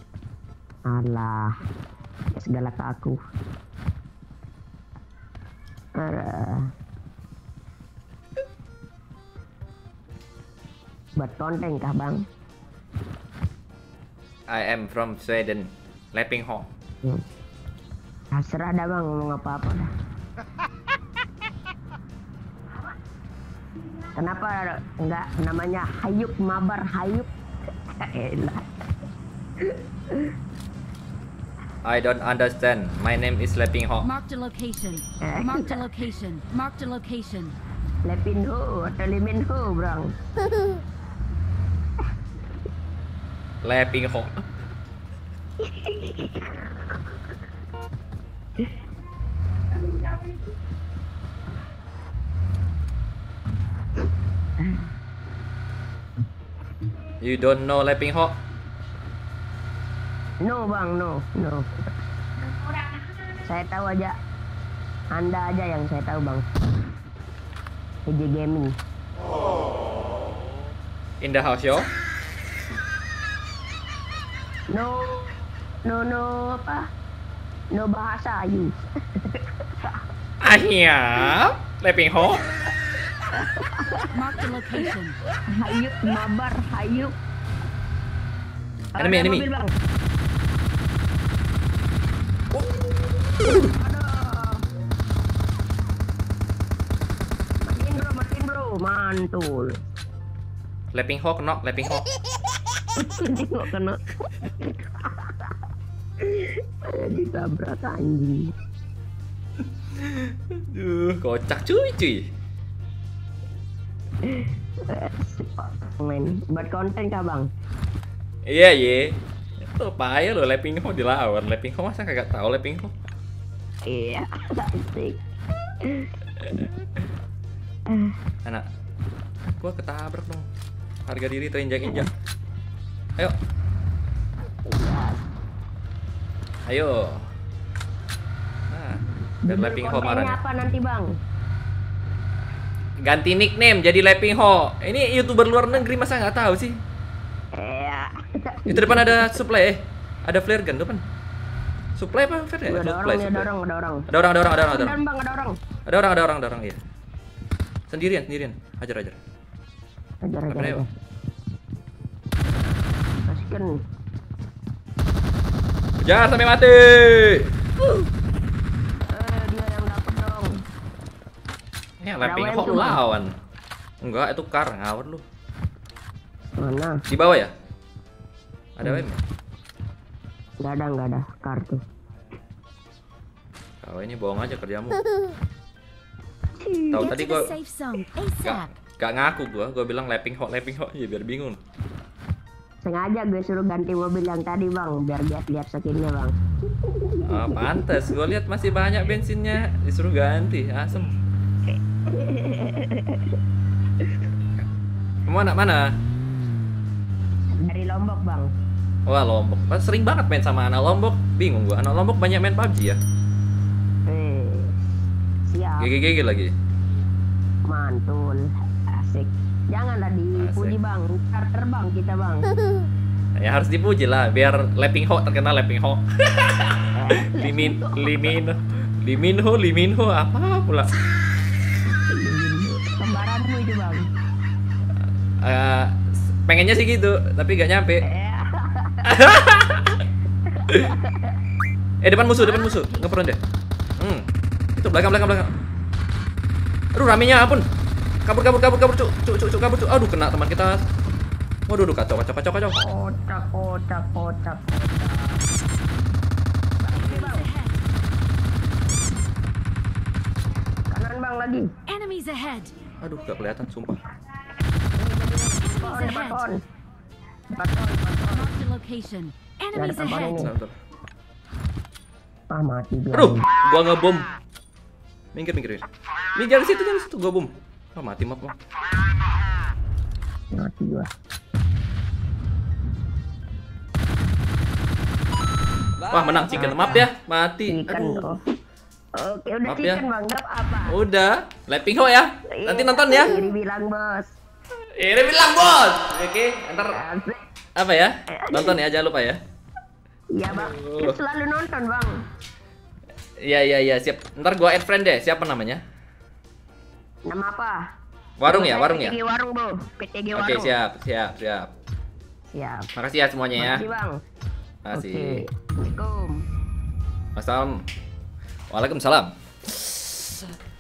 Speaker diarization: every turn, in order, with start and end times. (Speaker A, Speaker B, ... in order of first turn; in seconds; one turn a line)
Speaker A: 0.9-1.6
Speaker A: 2.4-3.2
Speaker A: 6.0-6.7
Speaker A: 11.2-12.3
Speaker B: 14.5-16.7
Speaker A: 18.3-19.9
Speaker A: 24.2-27.3
Speaker A: 28.0-28.7
Speaker A: 29.6-30.3
Speaker B: 31.8-34.1
Speaker C: 34.0-37.6
Speaker A: 35.2-35.8
Speaker A: 38.1-40.1
Speaker B: 43.6-44.5
Speaker A: 45.6-46.6
Speaker A: 54.6-54.9
Speaker B: 57.2-58.4
Speaker A: 60.4-61.7
Speaker A: 63.5-64.2
Speaker A: 65.1-66.5
Speaker A: 68.1-68.7
Speaker B: 71.2-71.9
Speaker A: 74.7-75.3
Speaker A: 75.8-76.9
Speaker A: 77.7-79.9
Speaker B: 80.4-82.5
Speaker A: 83.3-84.1
Speaker C: 84.1-85.2
Speaker A: 85.5-87.2
Speaker A: 89.0-89.7
Speaker B: 89.0-89.5
Speaker A: 93.4-94.6
Speaker A: 97.7-99.8
Speaker B: 100.9-102.1
Speaker A: 103.0-105.6
Speaker A: 106.2-108.5
Speaker B: 109.9-112.3
Speaker A: 114.2-117.5
Speaker B: 118.5-122.9
Speaker A: 123.9-125.2
Speaker A: 125.8-126.6
Speaker B: 126.4-126.7
Speaker A: 127.9-128.2
Speaker B: 129.4-130.5
Speaker B: 131.1-132.1
Speaker A: 134.7-135.2
Speaker B: 136.7-137.3
Speaker B: 138.7-140.4
Speaker A: 139.5-141.1
Speaker B: 143.0-146.8
Speaker A: 147.6-149.4
Speaker B: 148.7-151.0
Speaker B: 151.9-153.5
Speaker A: 152.7-155.6
Speaker B: 154.1-155.0
Speaker B: 155.9-156.8
Speaker B: 157.9-159.2
Speaker A: 160.2-160.9
Speaker B: 160.5-160.8
Speaker A: 163.1-163.8
Speaker B: 166.0-167.5
Speaker A: 169.1-170.6
Speaker B: 172.0-173.3
Speaker A: 172.2-173.0
Speaker B: 174.0-175.2
Speaker A: 176.6-177.0
Speaker B: 177.1-177.5
Speaker B: 178.8-179.2
Speaker A: 180.6-181.8
Speaker B: 183.8-185.0
Speaker A: 186.6-187.5
Speaker B: 186.9-187.5
Speaker C: 187.0-188.7
Speaker B: 188.4-191.6
Speaker A: 192.8-197.7
Speaker B: 197.2-201.2
Speaker A: 202.1-203.4
Speaker B: 205.3-205.9
Speaker A: 207.6-208.5
Speaker B: 209.1-213.0
Speaker A: 214.1-214.9
Speaker A: 215.5-215.9
Speaker B: 215.8-216.6
Speaker A: 217.7-222.5
Speaker B: 220.4-220.8
Speaker B: 223.4-230.9
Speaker A: 226.9-228.3
Speaker A: 232.1-234.1
Speaker B: 235.4-238.0
Speaker A: 238.1-239.1
Speaker B: 239.0-240.1
Speaker A: 240.5-241.3
Speaker B: 242.0-243.4
Speaker C: 242.4-243.1
Speaker B: 244.0-245.5
Speaker B: 246.9-247.7
Speaker B: 248.3-250.9
Speaker B: 251.7-252.8
Speaker A: 252.8-255.3
Speaker A: 256.8-257.5
Speaker C: 256.9-257.8
Speaker A: 260.9-261.7
Speaker C: 261.9-262.7
Speaker B: 263.0-264.1
Speaker A: 265.0-266.6
Speaker C: 265.6-266.5
Speaker A: 267.5-268.5
Speaker C: 268.3-270.5
Speaker A: 269.8-270.5
Speaker B: 270.3-270.8
Speaker A: 272.5-273.5
Speaker B: 273.1-274.3
Speaker B: 275.3-275.9
Speaker B: 276.4-278.6
Speaker A: 280.5-281.1
Speaker B: 286.1-288.4
Speaker A: 286.5-287.0
Speaker A: 287.7-288.4
Speaker A: 289.2-290.9
Speaker B: 289.6-290.0
Speaker B: 290.9-293.4
Speaker A: 292.5-294.3
Speaker B: 295.0-297.0
Speaker A: 296.9-297.4
Speaker B: 297.8-299.4
Speaker A: 298.3-298.8
Speaker A: 300.3-302.1
Speaker B: 300.5-301.2
Speaker B: 303.4-305.8
Speaker A: 307.3-307.8
Speaker B: 308.4-309.2
Speaker A: 308.5-310.7
Speaker B: 310.3-311.7
Speaker A: 312.5-312.9
Speaker B: 313.0-313.9
Speaker A: 313.6-314.2
Speaker B: 314.8-315.4
Speaker A: 314.9-316.4
Speaker B: 317.4-317.8
Speaker B: 318.7-320.5